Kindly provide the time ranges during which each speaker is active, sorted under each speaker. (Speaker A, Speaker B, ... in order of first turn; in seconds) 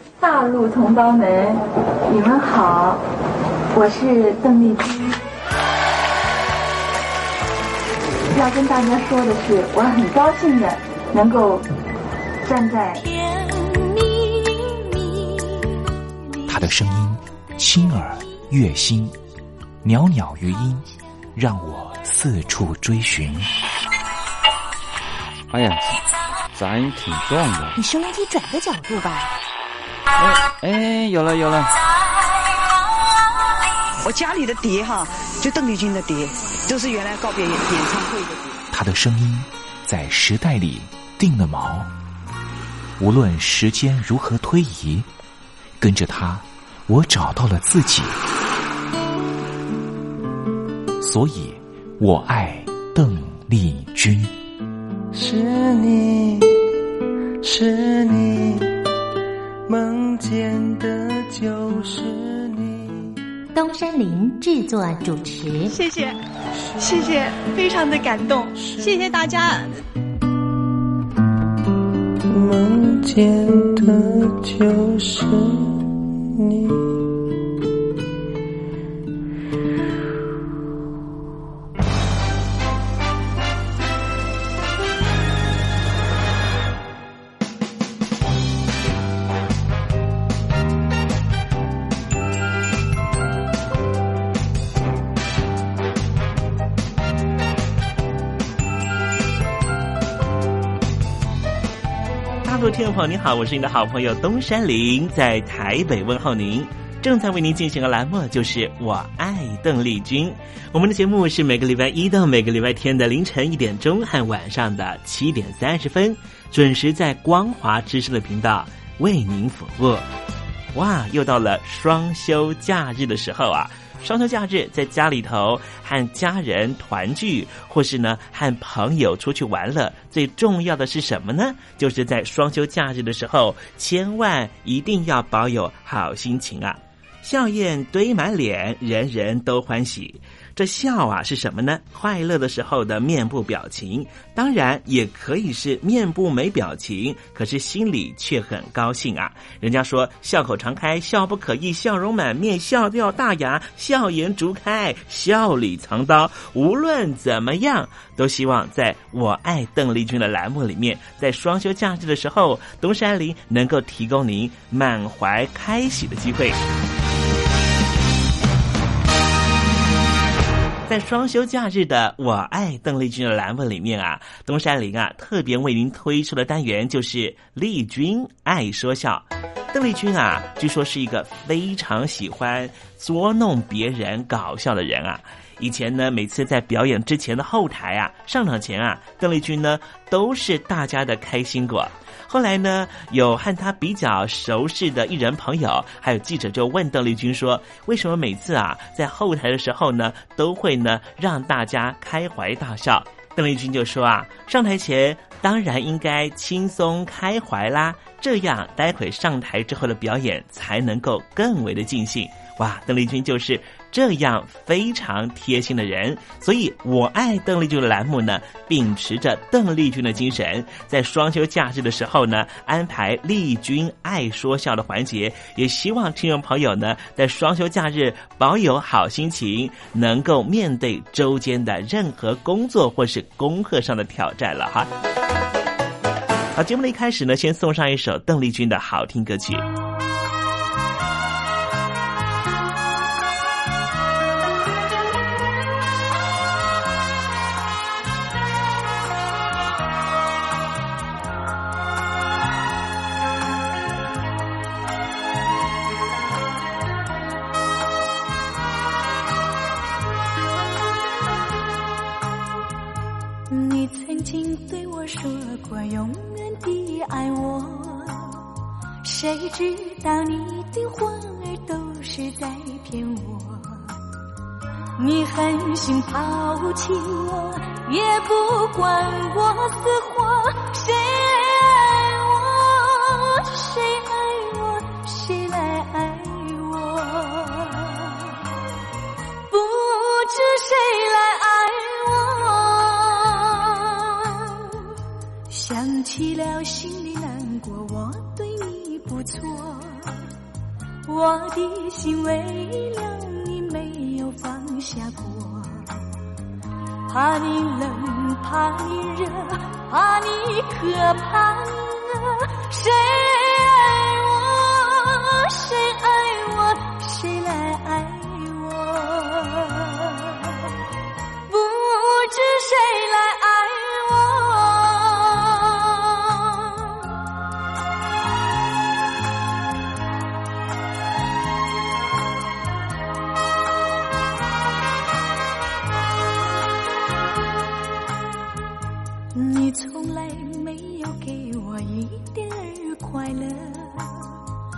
Speaker A: 0.2-3.0, 3.7-5.2, 8.3-11.7, 12.4-13.0
Speaker B: 12.9-16.6, 263.5-268.4, 269.0-274.0, 275.0-288.4, 289.5-294.8, 295.5-300.2, 301.1-306.0, 307.1-320.6, 321.5-326.9, 339.3-344.4
Speaker C: 16.5-19.1, 19.8-23.5, 38.7-41.9, 43.0-45.1, 45.8-48.2, 51.0-54.3
Speaker D: 25.5-26.0, 26.5-27.8, 30.2-31.7
Speaker E: 27.9-29.2, 63.5-65.7
Speaker F: 34.0-38.5
Speaker G: 55.1-56.5, 57.4-58.7, 59.7-63.1, 68.5-68.9, 72.3-75.7, 76.4-76.8
Speaker H: 65.7-66.2, 66.8-69.8
Speaker I: 102.4-120.0, 120.7-166.6, 170.9-234.9, 236.5-239.7